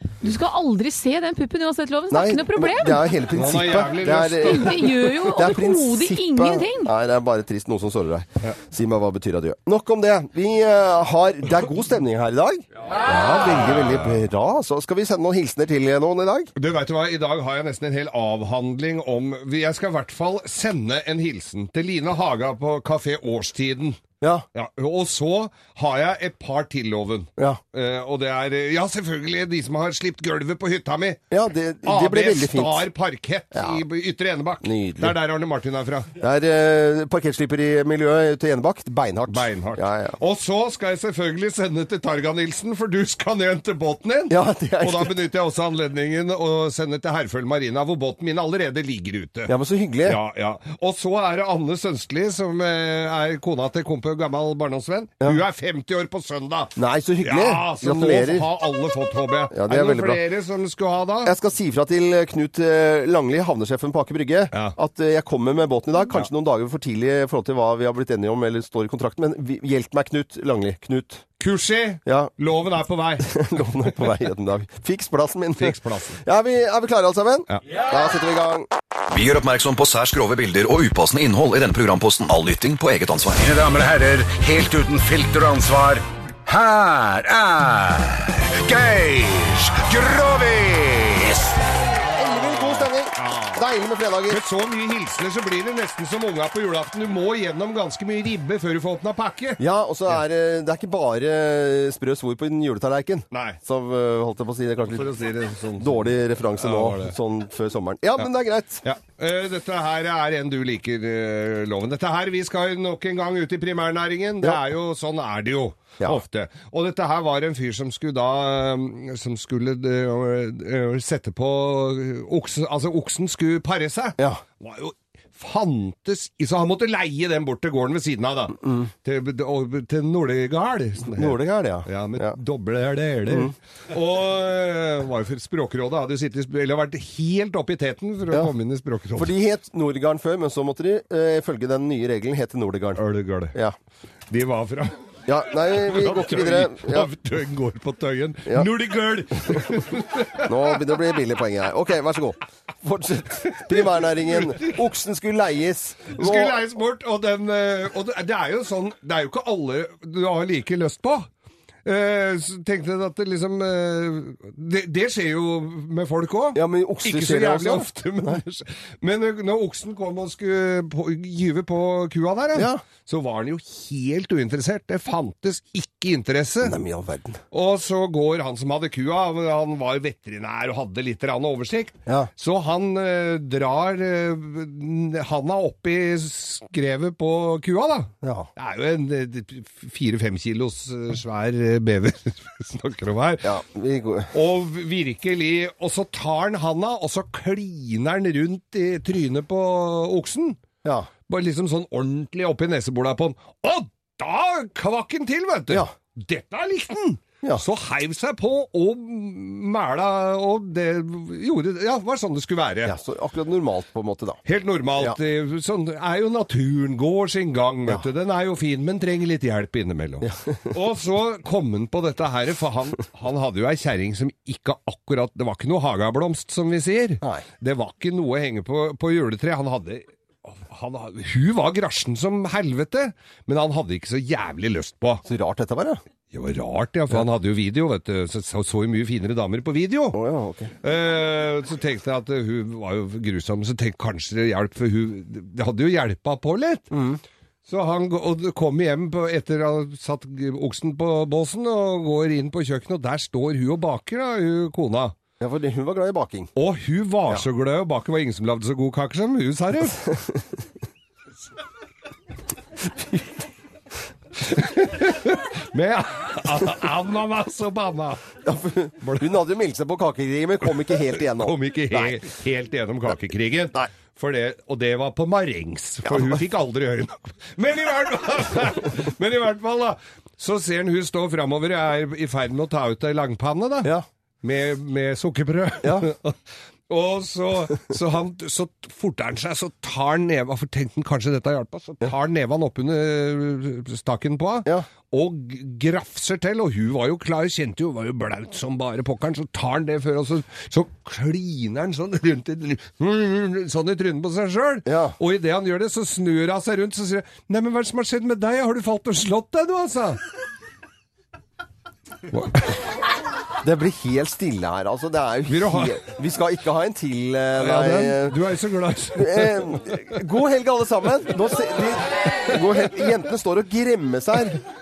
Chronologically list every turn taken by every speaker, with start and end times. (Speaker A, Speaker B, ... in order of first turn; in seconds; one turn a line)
Speaker A: 0.2-3.2
Speaker B: 2.1-16.5
Speaker C: 3.3-4.9
Speaker A: 4.5-6.9
Speaker C: 16.6-24.0
Speaker C: 24.5-31.2
Speaker B: 31.3-32.9
Speaker C: 31.8-36.1
Speaker B: 33.5-33.8
Speaker B: 34.6-35.1
Speaker B: 36.2-40.2
Speaker C: 39.3-49.5
Speaker B: 44.3-45.2
Speaker B: 49.5-50.2
Speaker C: 50.0-61.3
Speaker B: 56.8-58.5
Speaker B: 59.5-60.2
Speaker B: 61.2-71.2
Speaker C: 71.4-73.3
Speaker B: 72.1-72.3
Speaker B: 73.2-78.7
Speaker C: 75.6-76.2
Speaker D: 79.1-83.4
Speaker E: 83.3-91.6
Speaker C: 92.1-93.6
Speaker B: 92.2-94.4
Speaker C: 94.3-99.6
Speaker B: 99.6-105.1
Speaker C: 103.3-103.6
Speaker C: 104.9-107.2
Speaker B: 105.8-108.8
Speaker C: 108.8-139.3
Speaker B: 131.1-132.4
Speaker B: 139.2-143.0
Speaker C: 143.0-143.6
Speaker C: 144.3-145.0
Speaker B: 145.3-147.1
Speaker C: 145.8-150.8
Speaker B: 150.4-156.6
Speaker C: 153.6-154.8
Speaker C: 156.1-161.3
Speaker C: 161.9-176.8
Speaker B: 166.6-168.4
Speaker B: 172.6-172.8
Speaker B: 176.6-177.4
Speaker C: 177.5-193.5
Speaker B: 188.2-188.5
Speaker B: 193.4-194.3
Speaker C: 194.3-200.6
Speaker B: 200.8-201.1
Speaker C: 201.3-212.9
Speaker B: 212.8-214.4
Speaker C: 214.4-235.2
Speaker B: 235.3-236.0
Speaker C: 236.3-240.2
Speaker B: 240.1-240.7
Speaker C: 240.8-246.9
Speaker B: 246.9-247.2
Speaker C: 247.7-255.1
Speaker B: 255.4-256.5
Speaker C: 256.6-260.1
Speaker C: 264.4-268.3
Speaker B: 268.4-272.2
Speaker C: 269.0-269.4
Speaker C: 270.7-283.9
Speaker B: 276.1-276.4
Speaker C: 284.4-286.4
Speaker B: 285.8-286.1
Speaker C: 286.9-310.2
Speaker B: 304.9-305.1
Speaker C: 312.3-312.8
Speaker B: 313.6-318.4
Speaker C: 315.5-316.0
Speaker C: 317.6-320.1
Speaker B: 319.1-324.6